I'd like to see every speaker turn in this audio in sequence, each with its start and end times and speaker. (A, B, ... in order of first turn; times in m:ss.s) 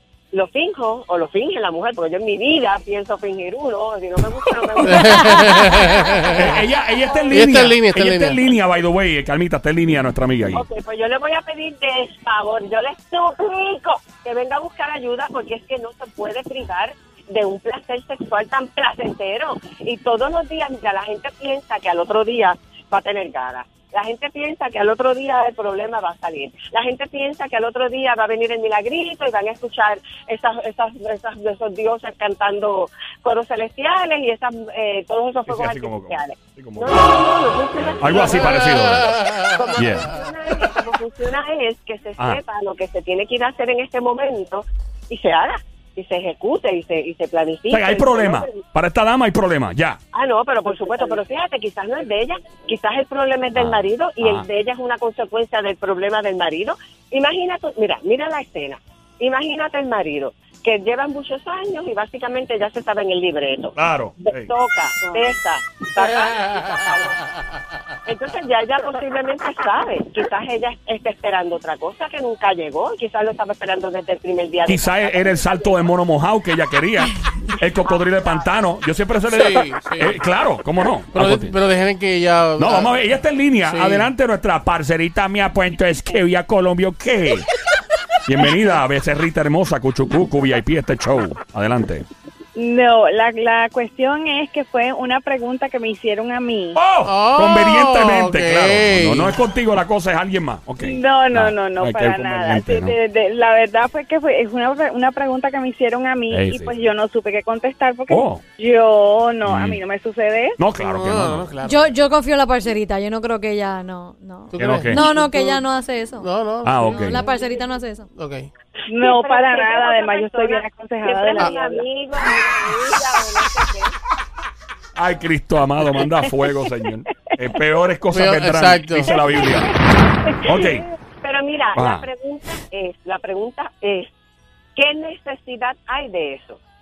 0:00.3-0:06.7 A
0:04.8-0:06.5 B
0:06.3-0:10.6 C
0:07.3-0:08.4 B
0:10.5-0:38.8 A
0:35.5-0:37.0 C
0:38.0-0:39.2 C
0:39.3-0:48.6 A
0:39.8-0:40.1 C
0:47.7-0:50.0 C
0:50.1-1:07.2 A
0:53.6-0:54.5 C
1:03.8-1:04.5 C
1:08.0-1:16.0 A
1:14.7-1:21.6 C
1:17.8-1:18.5 A
1:19.3-1:20.2 B
1:21.1-1:23.0 B
1:22.6-1:27.5 C
1:23.6-1:24.1 B
1:28.2-1:32.1 C
1:32.6-1:36.8 D
1:36.8-1:43.0 C
1:37.0-1:39.4 B
1:40.8-1:50.6 D
1:46.3-1:46.7 C
1:48.1-1:48.4 C
1:49.4-1:49.8 C
1:50.6-1:51.6 C
1:50.8-1:51.9 B
1:51.6-1:56.3 E
1:54.5-1:55.6 B
1:54.6-1:55.0 C
1:56.2-1:57.5 B
1:56.6-1:57.2 C
1:56.9-1:58.1 E
1:58.1-1:58.5 B
1:58.9-2:01.8 D
1:59.0-2:03.9 A
2:05.0-2:09.7 C
2:08.1-2:09.2 B
2:10.4-2:10.8 C
2:11.2-2:14.1 A
2:11.8-2:12.1 C
2:14.8-2:16.6 A